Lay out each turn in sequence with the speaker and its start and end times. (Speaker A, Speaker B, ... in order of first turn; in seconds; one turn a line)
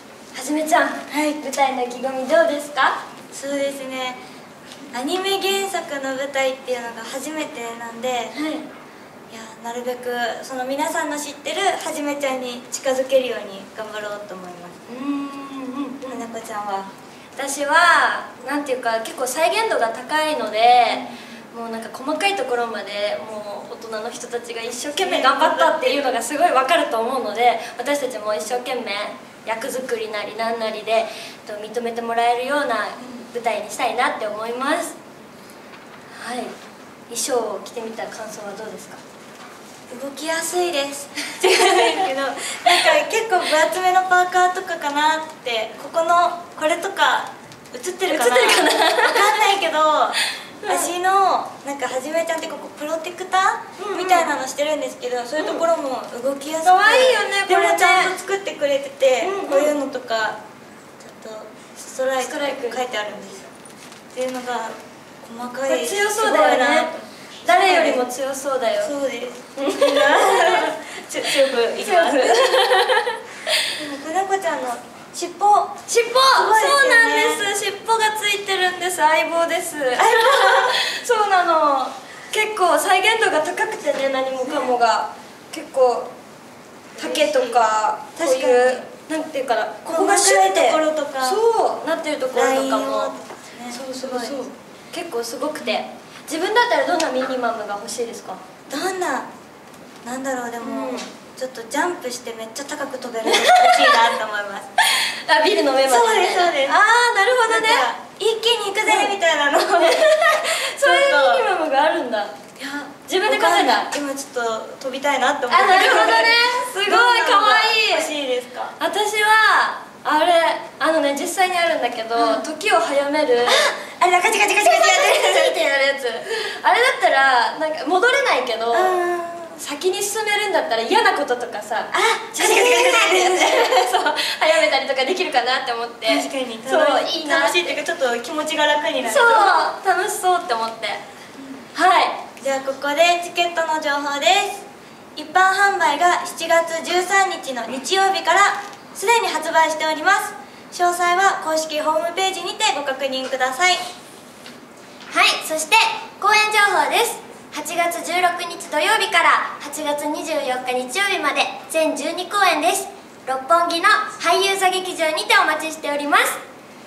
Speaker A: 0.3-3.0
Speaker B: 1.1-1.4
Speaker B: 3.3-4.2
Speaker B: 4.9-8.3
Speaker A: 8.3-8.7
Speaker B: 9.3-14.8
Speaker A: 14.9-16.3
Speaker B: 16.1-16.9
Speaker A: 17.4-35.0
Speaker B: 24.9-26.2
Speaker A: 36.2-36.5
Speaker A: 37.1-39.0
Speaker B: 39.9-60.4
Speaker A: 41.4-42.1
Speaker A: 48.1-49.5
Speaker A: 50.6-50.9
Speaker A: 53.8-54.3
Speaker A: 55.4-55.6
Speaker A: 56.6-58.1
Speaker A: 59.2-59.7
Speaker B: 61.0-63.5
Speaker A: 62.2-62.8
Speaker B: 64.1-68.0
Speaker A: 65.7-66.9
Speaker A: 67.5-68.9
Speaker B: 68.8-72.5
Speaker A: 69.6-70.8
Speaker A: 71.6-73.7
Speaker B: 73.8-75.8
Speaker A: 75.9-86.1
Speaker B: 76.3-77.5
Speaker B: 80.0-80.8
Speaker B: 84.4-84.8
Speaker B: 87.0-88.8
Speaker A: 87.0-93.1
Speaker B: 89.8-91.4
Speaker B: 92.3-94.5
Speaker A: 93.7-98.4
Speaker B: 98.7-99.3
Speaker B: 100.0-104.7
Speaker A: 100.6-101.1
Speaker A: 103.2-104.1
Speaker A: 104.9-107.9
Speaker B: 105.8-106.8
Speaker B: 107.4-111.5
Speaker A: 108.8-109.2
Speaker A: 109.8-112.4
Speaker B: 112.6-118.8
Speaker A: 113.1-113.9
Speaker A: 115.5-118.1
Speaker A: 118.8-123.7
Speaker B: 122.2-122.5
Speaker B: 123.5-125.6
Speaker A: 124.6-129.0
Speaker B: 128.7-129.6
Speaker A: 129.6-137.8
Speaker B: 131.9-133.9
Speaker B: 136.1-139.7
Speaker A: 139.0-141.0
Speaker A: 141.7-142.2
Speaker B: 142.4-144.6
Speaker B: 145.2-153.8
Speaker A: 155.1-166.4